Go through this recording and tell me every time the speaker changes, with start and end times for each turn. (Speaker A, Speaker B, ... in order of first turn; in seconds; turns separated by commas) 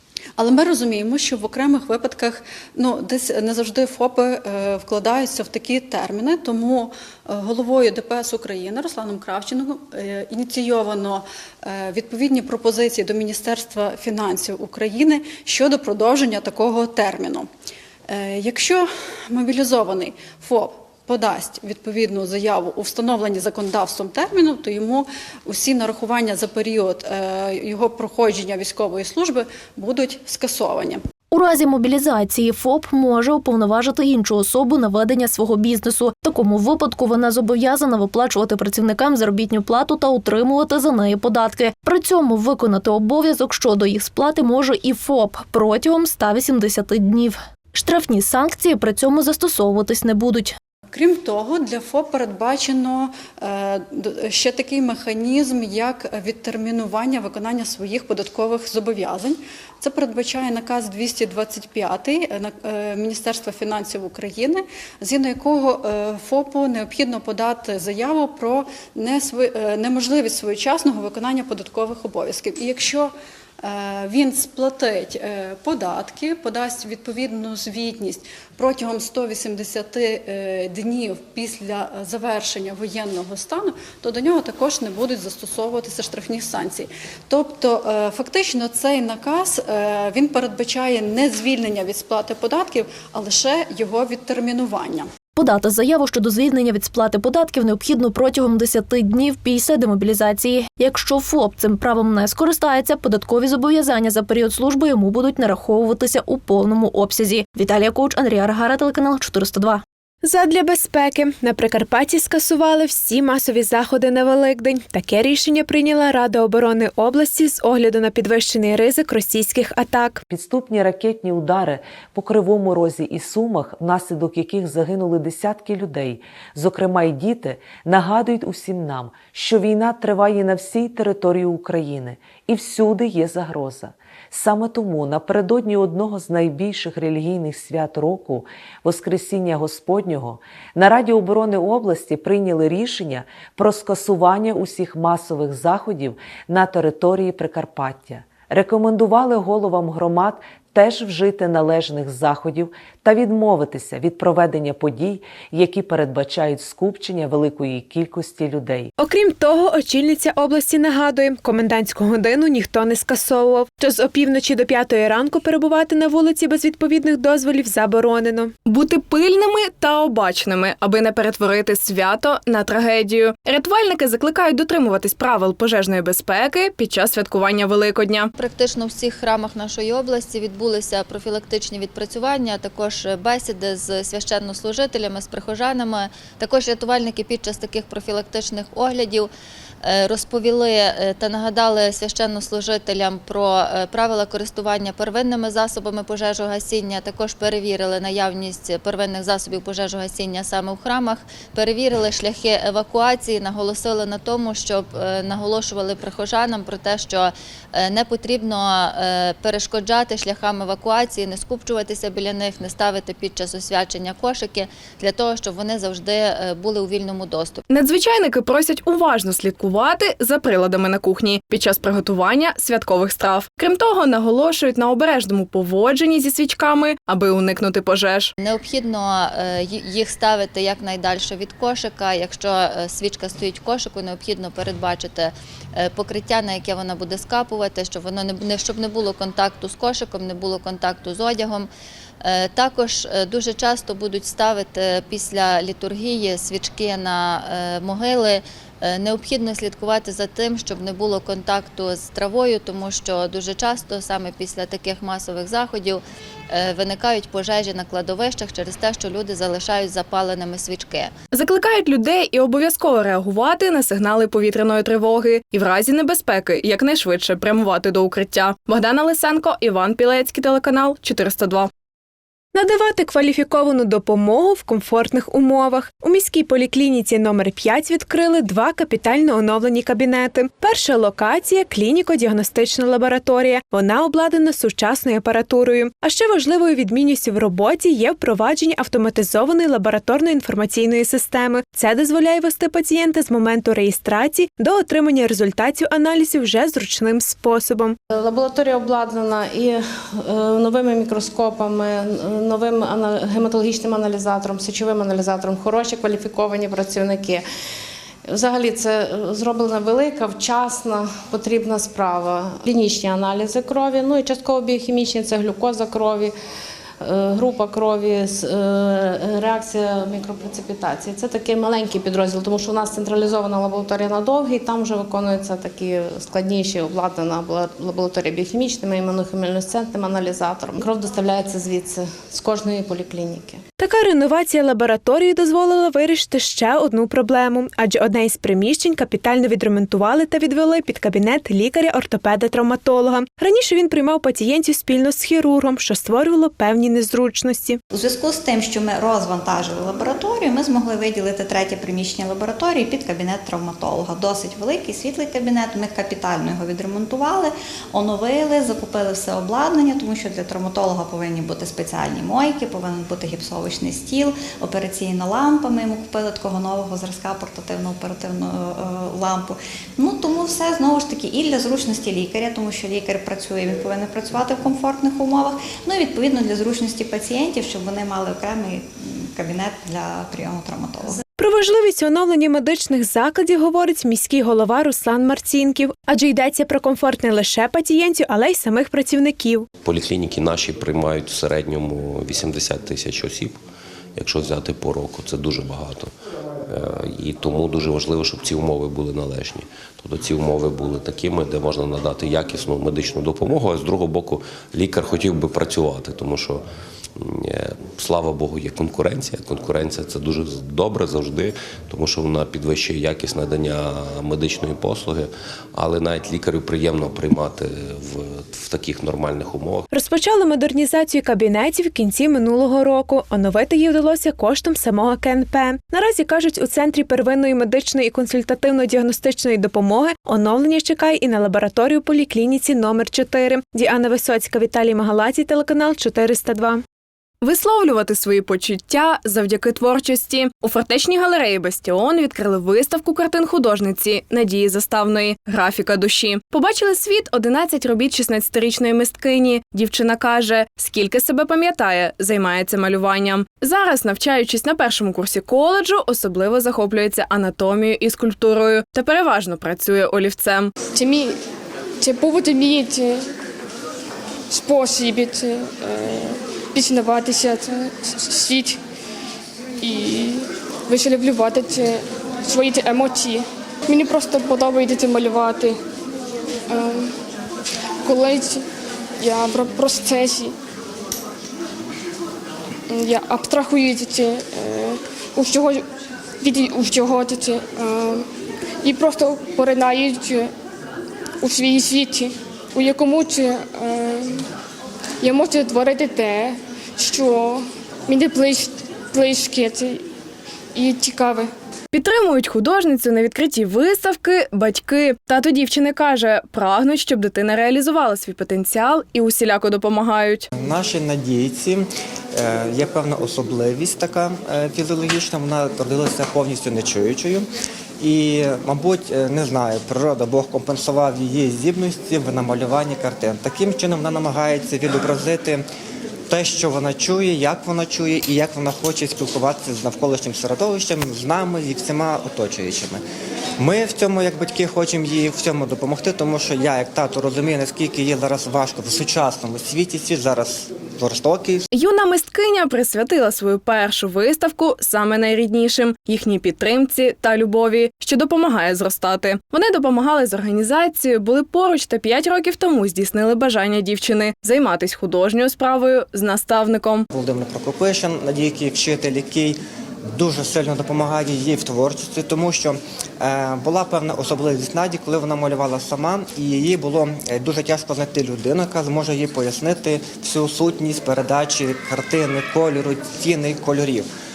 Speaker A: 0.4-17.5, Speaker A: 18.1-31.0, Speaker B: 31.3-50.5, Speaker A: 50.9-95.1, Speaker B: 95.4-109.8, Speaker C: 110.2-120.2, Speaker D: 120.3-158.9, Speaker C: 159.0-168.5, Speaker E: 168.7-178.3, Speaker F: 178.4-189.3, Speaker F: 189.8-217.6, Speaker E: 217.7-228.3, Speaker F: 228.4-241.7, Speaker F: 242.2-261.1, Speaker E: 261.3-271.7, Speaker C: 272.5-298.0, Speaker G: 298.1-307.4, Speaker G: 308.3-316.3, Speaker G: 317.0-333.6, Speaker C: 333.8-347.8, Speaker H: 347.9-381.2, Speaker C: 381.4-389.7, Speaker I: 389.9-393.6, Speaker I: 394.2-396.1, Speaker I: 396.7-406.6, Speaker I: 407.2-419.9, Speaker C: 419.9-436.8, Speaker E: 437.4-460.7, Speaker J: 460.9-461.4, Speaker J: 462.0-463.2, Speaker J: 464.5-468.8, Speaker J: 469.8-475.8, Speaker J: 476.7-477.1, Speaker J: 478.1-478.7, Speaker J: 479.2-480.6, Speaker J: 482.9-485.9, Speaker J: 486.4-488.3, Speaker J: 488.8-490.5, Speaker J: 491.4-494.4, Speaker J: 495.2-500.1, Speaker J: 500.8-501.5, Speaker E: 501.9-510.5, Speaker K: 510.6-517.5, Speaker K: 518.0-525.6, Speaker K: 526.3-533.0, Speaker K: 533.6-541.6, Speaker E: 541.7-557.1, Speaker K: 557.1-559.6, Speaker K: 560.1-574.1